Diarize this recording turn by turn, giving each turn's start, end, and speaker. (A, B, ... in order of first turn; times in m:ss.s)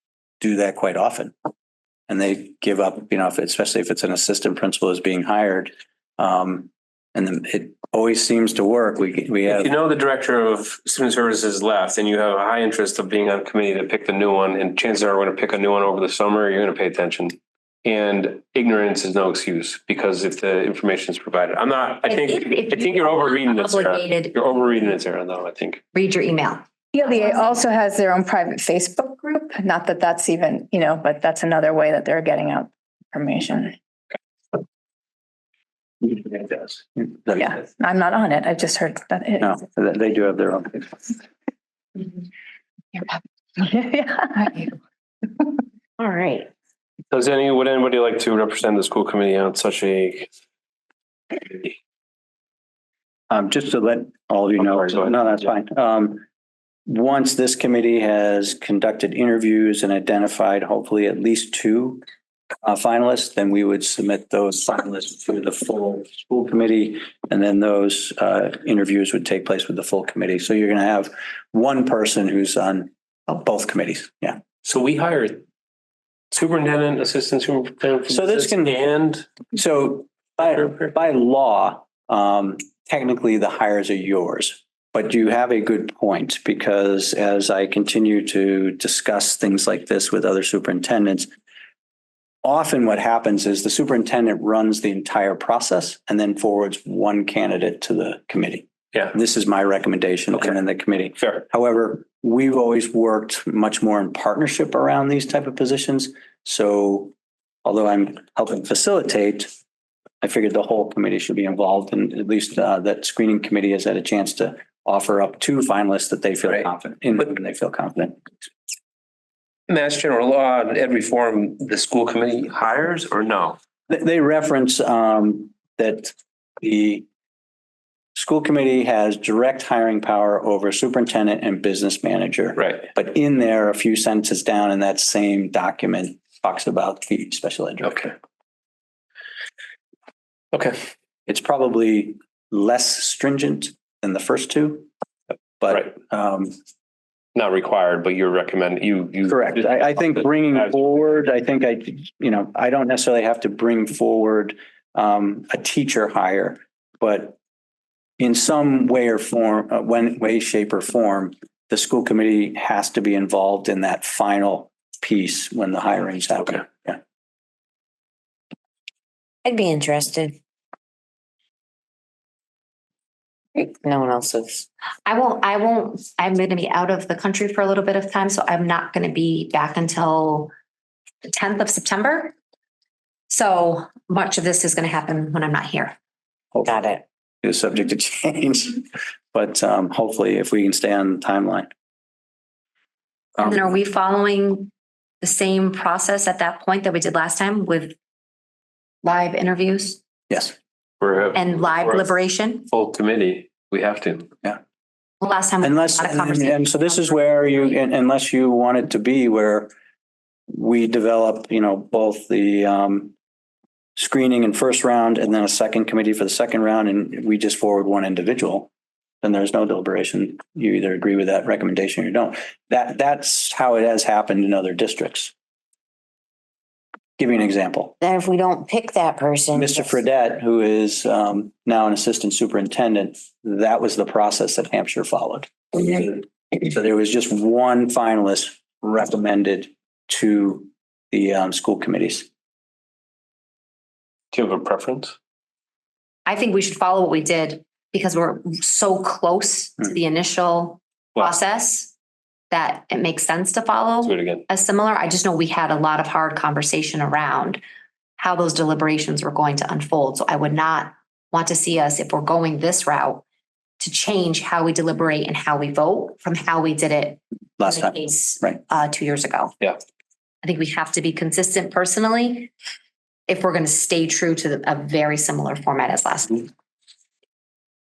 0:00.4-0:01.3 A
0:02.1-0:09.7 A
0:09.5-0:25.8 B
0:22.0-0:24.3 C
0:25.9-0:26.6 C
0:26.9-0:33.7 D
0:27.1-0:27.5 C
0:36.0-0:37.5 A
0:37.4-0:39.6 D
0:39.4-0:41.1 A
0:42.9-0:44.7 D
0:46.0-0:46.5 E
0:47.1-0:50.3 B
0:53.3-0:56.2 A
0:54.6-0:55.2 B
0:56.9-1:02.0 A
1:02.6-1:14.4 A
1:14.6-1:15.4 B
1:16.3-1:19.3 B
1:18.1-1:18.8 A
1:19.5-1:31.3 A
1:20.4-1:20.9 B
1:32.4-1:47.1 A
1:47.6-1:49.5 A
1:50.2-1:58.2 A
1:59.7-2:03.6 B
2:03.9-2:07.0 A
2:08.1-2:18.1 A
2:12.6-2:12.8 B
2:17.8-2:18.1 B
2:20.5-2:20.8 B
2:21.3-2:24.9 A
2:25.6-2:26.5 A
2:27.3-2:30.7 B
2:29.3-2:37.4 A
2:38.2-2:47.0 A
2:49.4-2:50.4 E
2:53.5-2:54.6 E
2:55.0-3:00.5 C
3:01.2-3:02.3 C
3:03.3-3:05.9 C
3:06.5-3:06.8 A
3:06.6-3:07.0 E
3:07.4-3:11.7 A
3:13.4-3:18.0 C
3:19.0-3:20.0 C
3:21.0-3:22.1 B
3:21.3-3:22.7 C
3:22.7-3:24.3 B
3:25.2-3:27.8 C
3:25.6-3:29.7 A
3:30.5-3:33.1 A
3:34.0-3:38.7 A
3:39.2-3:45.3 A
3:47.2-3:47.9 A
3:48.0-3:50.0 E
3:49.5-4:02.3 A
4:04.3-4:05.1 B
4:06.2-4:11.9 C
4:12.5-4:17.6 C
4:14.0-4:14.4 B
4:18.2-4:23.2 C
4:23.8-4:29.5 C
4:27.6-4:28.6 A
4:30.4-4:32.5 C
4:33.3-4:36.5 C